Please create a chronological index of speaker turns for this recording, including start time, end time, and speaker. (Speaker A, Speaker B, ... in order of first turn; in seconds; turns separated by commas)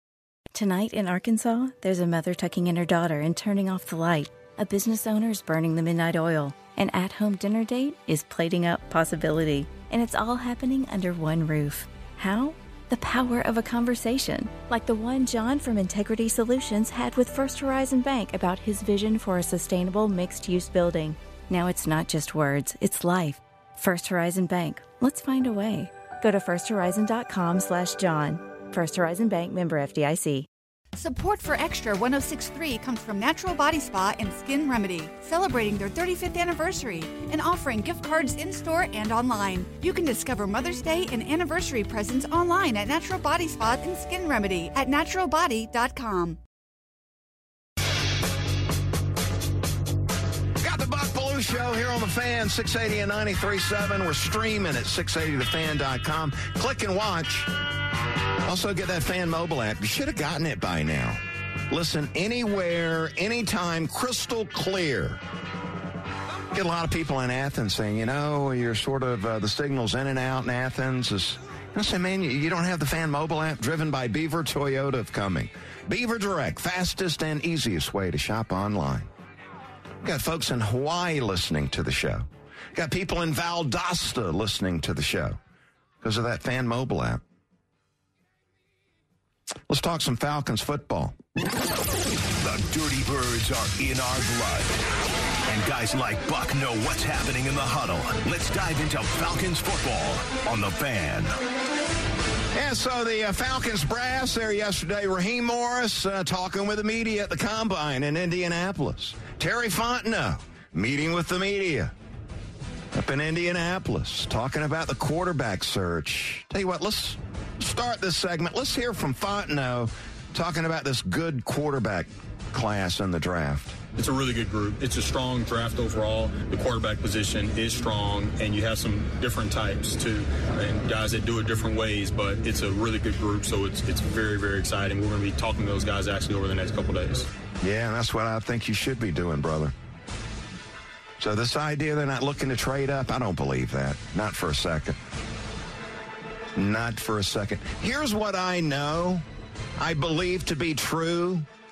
Speaker A: 0.5-30.5, Speaker B: 31.0-46.4, Speaker C: 50.6-57.5, Speaker C: 58.4-65.2, Speaker C: 66.5-79.1, Speaker C: 80.0-85.4, Speaker C: 86.0-87.2, Speaker C: 89.7-91.2, Speaker D: 92.4-94.8, Speaker D: 95.5-101.3, Speaker C: 102.5-111.9, Speaker C: 112.9-123.8, Speaker E: 123.9-137.3, Speaker C: 137.6-139.7, Speaker C: 141.2-145.0, Speaker C: 146.5-149.2, Speaker C: 149.8-151.5